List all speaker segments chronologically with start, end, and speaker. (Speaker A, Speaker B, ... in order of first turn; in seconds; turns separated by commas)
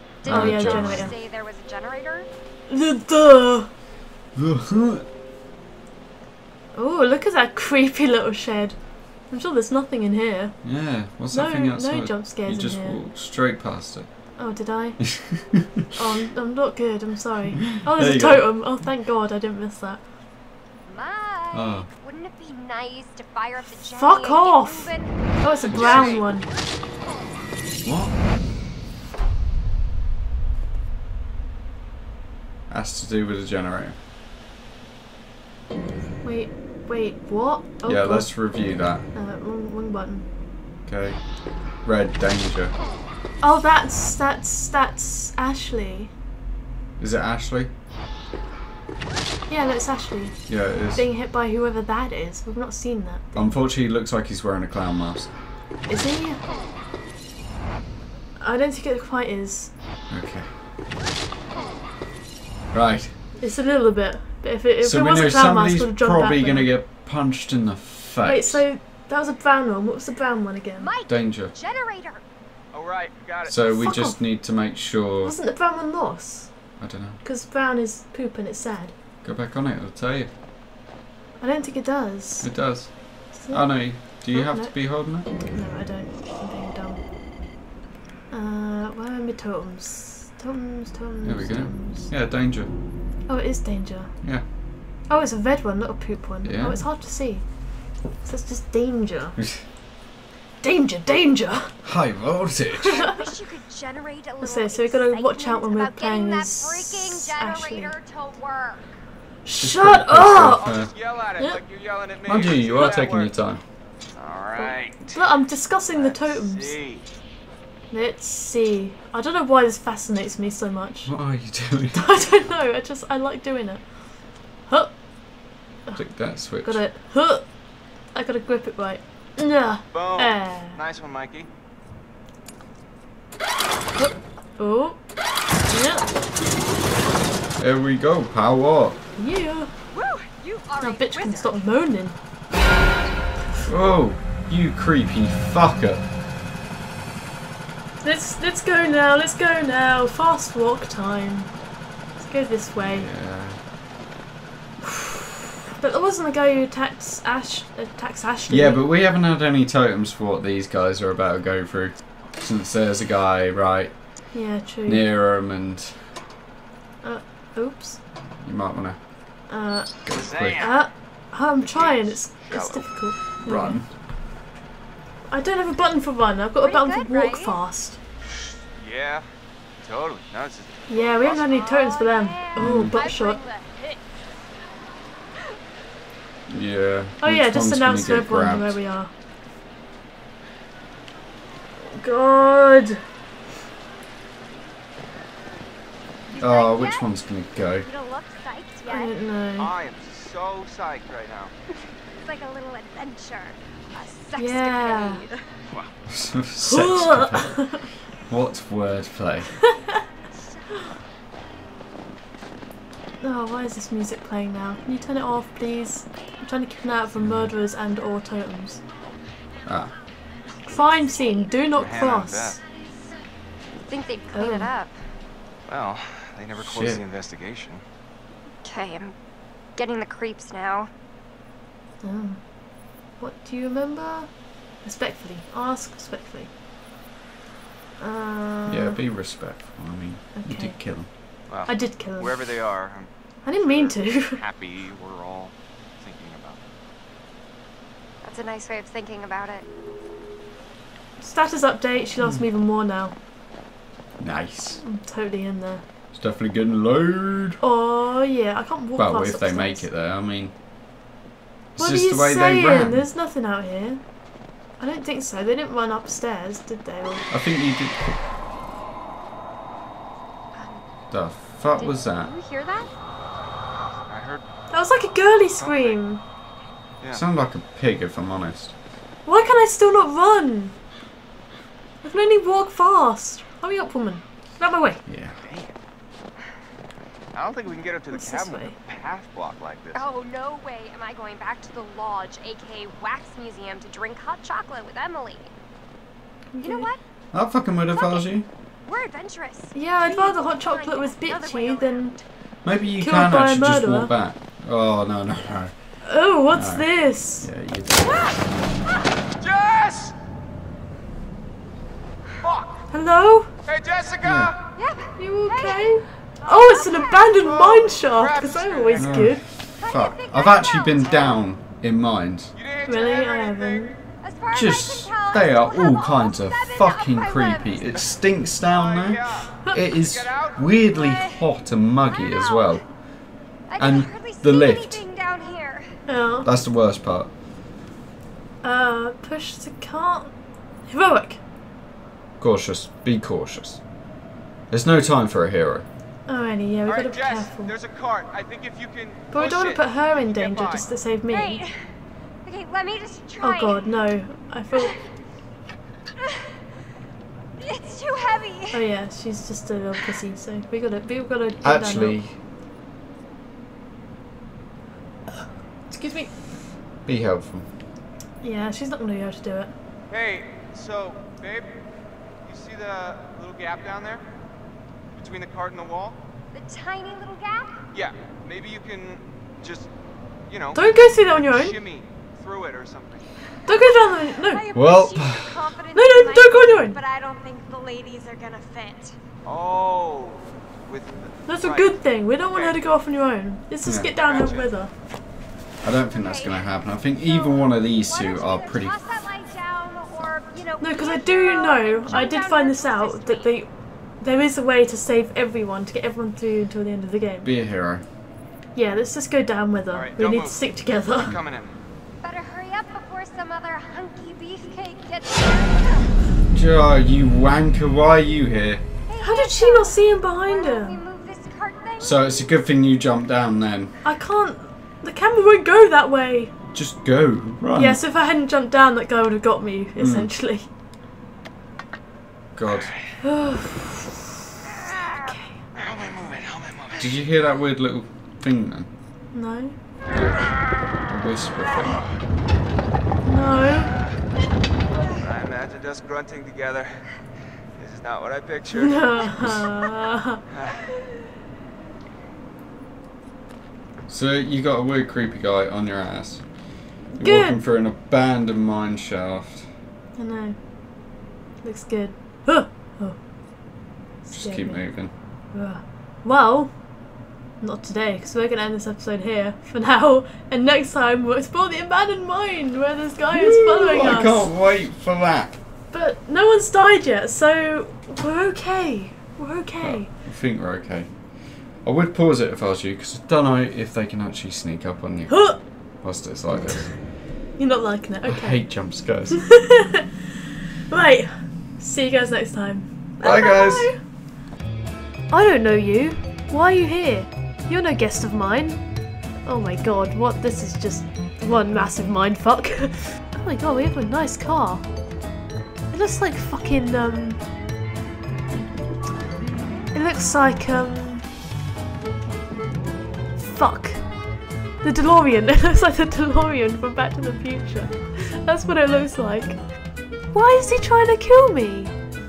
Speaker A: 0.2-2.3, Speaker B: 0.3-1.1, Speaker C: 0.3-1.1, Speaker C: 2.7-3.7, Speaker B: 4.3-5.1, Speaker C: 6.8-10.6, Speaker B: 10.6-14.1, Speaker C: 11.3-13.0, Speaker C: 14.4-15.0, Speaker B: 15.2-15.7, Speaker C: 16.0-20.0, Speaker B: 17.9-18.6, Speaker A: 20.9-26.1, Speaker B: 21.5-21.9, Speaker C: 23.9-26.5, Speaker D: 25.7-26.2, Speaker B: 25.7-26.2, Speaker B: 27.8-28.1, Speaker B: 32.7-34.0, Speaker C: 36.2-40.2, Speaker B: 37.9-39.1, Speaker B: 40.9-41.2, Speaker B: 41.8-42.8, Speaker C: 43.4-46.1, Speaker B: 47.0-47.7, Speaker C: 49.5-53.5, Speaker B: 50.5-51.1, Speaker B: 53.4-55.3, Speaker C: 55.9-56.4, Speaker C: 58.4-59.7, Speaker B: 60.1-60.5, Speaker B: 62.7-63.1, Speaker C: 63.4-66.7, Speaker B: 64.8-68.7, Speaker C: 68.2-70.9, Speaker A: 70.8-72.2, Speaker B: 71.1-71.5, Speaker D: 72.7-73.6, Speaker B: 73.5-75.3, Speaker C: 73.7-74.2, Speaker C: 75.2-76.7, Speaker B: 76.8-77.2, Speaker C: 77.2-78.9, Speaker B: 79.2-80.3, Speaker C: 81.4-82.5, Speaker B: 82.4-85.3, Speaker C: 83.3-87.0, Speaker C: 88.3-92.1, Speaker B: 91.2-92.7, Speaker C: 93.3-94.2, Speaker C: 95.1-97.5, Speaker B: 96.4-96.8, Speaker C: 98.2-99.4, Speaker C: 100.6-101.8, Speaker B: 101.8-103.0, Speaker A: 103.0-109.0, Speaker C: 104.4-108.0, Speaker C: 109.5-110.8, Speaker B: 109.6-110.9, Speaker D: 110.4-113.4, Speaker B: 112.2-113.6, Speaker C: 112.7-113.0, Speaker D: 114.1-115.2, Speaker C: 115.1-116.8, Speaker D: 115.9-117.0, Speaker C: 117.9-121.2, Speaker B: 121.1-122.2, Speaker C: 121.9-123.9, Speaker C: 124.7-125.0, Speaker C: 125.9-127.5, Speaker B: 126.0-126.8, Speaker C: 128.1-130.8, Speaker D: 129.9-131.5, Speaker C: 134.0-135.0, Speaker C: 135.7-136.1, Speaker B: 137.6-139.0, Speaker C: 139.2-139.7, Speaker A: 139.9-141.7, Speaker C: 140.8-142.2, Speaker B: 143.7-146.0, Speaker C: 148.0-151.6, Speaker C: 152.2-153.1, Speaker B: 152.8-153.6, Speaker C: 154.8-158.8, Speaker B: 158.5-166.1, Speaker C: 164.3-165.1, Speaker C: 167.0-168.0, Speaker B: 168.4-169.0, Speaker C: 169.5-173.8, Speaker B: 170.1-170.7, Speaker D: 170.1-170.8, Speaker D: 171.6-172.9, Speaker B: 173.4-173.9, Speaker C: 175.3-178.0, Speaker A: 176.6-177.6, Speaker D: 178.8-179.3, Speaker D: 179.8-181.6, Speaker C: 180.9-183.4, Speaker A: 181.3-184.0, Speaker B: 182.6-182.9, Speaker B: 186.5-188.8, Speaker C: 187.2-189.1, Speaker C: 191.8-193.0, Speaker A: 196.3-197.1, Speaker B: 196.4-197.9, Speaker A: 197.8-199.1, Speaker C: 198.9-199.7, Speaker D: 199.6-201.5, Speaker A: 202.2-205.5, Speaker C: 204.4-205.3, Speaker D: 205.7-206.0, Speaker B: 206.1-209.5, Speaker C: 206.7-207.8, Speaker C: 213.2-218.8, Speaker B: 217.2-217.5, Speaker B: 219.7-219.9, Speaker C: 220.7-222.6, Speaker A: 221.1-221.5, Speaker D: 221.7-222.6, Speaker A: 223.9-225.0, Speaker C: 224.3-224.7, Speaker D: 225.7-227.8, Speaker B: 226.6-227.0, Speaker A: 228.6-229.2, Speaker A: 229.7-230.9, Speaker C: 232.0-236.5, Speaker C: 238.0-239.0, Speaker B: 238.7-241.1, Speaker C: 240.3-240.8, Speaker D: 241.5-246.6, Speaker C: 241.7-242.6, Speaker C: 243.4-244.4, Speaker A: 248.2-249.7, Speaker C: 251.2-253.1, Speaker B: 252.2-252.4, Speaker B: 254.2-254.8, Speaker C: 254.8-255.8, Speaker B: 256.1-257.6, Speaker C: 257.6-259.9, Speaker B: 259.0-260.5, Speaker B: 261.8-263.1, Speaker C: 261.8-264.0, Speaker C: 264.8-267.3, Speaker B: 267.3-268.0, Speaker A: 270.5-270.8, Speaker B: 271.1-272.3, Speaker A: 271.7-272.9, Speaker D: 274.1-274.5, Speaker C: 274.7-276.2, Speaker D: 275.6-276.0, Speaker B: 277.1-278.7, Speaker C: 279.3-280.8, Speaker C: 282.0-285.0, Speaker B: 285.1-285.4, Speaker D: 285.4-285.8, Speaker D: 287.3-290.0, Speaker C: 288.1-288.8, Speaker A: 289.9-295.5, Speaker C: 296.5-296.9, Speaker A: 296.6-297.0, Speaker B: 297.3-298.5, Speaker A: 297.9-298.3, Speaker A: 298.8-302.2, Speaker C: 299.7-302.2, Speaker B: 302.6-305.7, Speaker C: 303.0-304.1, Speaker C: 306.0-307.5, Speaker B: 306.5-308.4, Speaker D: 309.4-310.1, Speaker D: 312.4-312.9, Speaker C: 312.9-313.5, Speaker D: 313.7-314.6, Speaker B: 314.2-314.5, Speaker A: 314.8-317.4, Speaker C: 315.2-319.4, Speaker D: 317.4-319.3, Speaker B: 318.9-322.5, Speaker A: 319.8-321.4, Speaker D: 322.6-323.9, Speaker C: 322.9-324.0, Speaker A: 324.2-328.0, Speaker B: 324.5-332.9, Speaker D: 328.6-330.7, Speaker A: 330.8-331.5, Speaker A: 332.1-332.8, Speaker A: 333.7-335.9, Speaker B: 333.8-335.0, Speaker C: 336.1-336.5, Speaker B: 336.4-337.3, Speaker C: 338.6-340.3, Speaker C: 340.9-341.4, Speaker B: 342.4-343.8, Speaker B: 344.7-345.9, Speaker C: 346.3-347.7, Speaker D: 346.9-350.9, Speaker C: 349.3-351.6, Speaker A: 351.3-351.7, Speaker A: 352.4-353.9, Speaker C: 353.4-354.9, Speaker A: 357.6-358.9, Speaker C: 358.7-362.2, Speaker B: 361.6-362.4, Speaker C: 365.3-366.4, Speaker B: 367.1-367.7, Speaker C: 368.4-369.7, Speaker D: 370.1-371.8, Speaker D: 372.4-374.3, Speaker D: 375.1-376.2, Speaker A: 376.5-377.8, Speaker D: 377.9-379.9, Speaker D: 380.5-383.5, Speaker C: 380.8-381.8, Speaker C: 383.7-384.6, Speaker A: 383.7-389.2, Speaker B: 384.7-385.7, Speaker C: 385.9-387.0, Speaker D: 389.4-392.9, Speaker C: 391.5-394.9, Speaker B: 393.8-394.1, Speaker D: 394.1-394.7, Speaker B: 395.8-398.9, Speaker A: 396.1-403.6, Speaker C: 400.8-407.5, Speaker B: 407.4-408.1, Speaker C: 408.8-411.4, Speaker D: 409.9-411.8, Speaker A: 412.2-416.1, Speaker B: 416.5-418.8, Speaker A: 419.1-422.3, Speaker C: 419.2-421.0, Speaker B: 422.0-423.9, Speaker C: 424.0-426.5, Speaker B: 426.7-428.0, Speaker C: 427.8-430.7, Speaker B: 430.0-430.3, Speaker B: 432.6-432.9, Speaker C: 433.2-434.1, Speaker C: 435.1-435.6, Speaker D: 435.8-437.2, Speaker B: 437.0-438.9, Speaker C: 439.3-439.8, Speaker B: 440.1-442.0, Speaker C: 443.2-443.9, Speaker D: 445.1-447.0, Speaker D: 447.8-449.7, Speaker C: 448.7-450.4, Speaker D: 450.5-450.8, Speaker B: 454.1-456.6, Speaker C: 457.1-457.6, Speaker B: 457.2-459.7, Speaker C: 460.2-460.7, Speaker C: 461.6-463.2, Speaker C: 463.7-464.9, Speaker B: 464.3-465.1, Speaker C: 465.5-466.9, Speaker C: 467.6-474.5, Speaker B: 473.3-475.5, Speaker C: 475.9-480.1, Speaker B: 479.8-481.1, Speaker B: 481.8-487.0, Speaker C: 485.3-485.6, Speaker C: 487.6-488.9, Speaker B: 488.3-489.5, Speaker C: 489.4-490.1, Speaker C: 490.9-494.0, Speaker B: 493.2-493.9, Speaker C: 495.3-504.9, Speaker C: 505.9-507.4, Speaker C: 509.9-511.3, Speaker C: 513.5-519.7, Speaker C: 520.3-522.0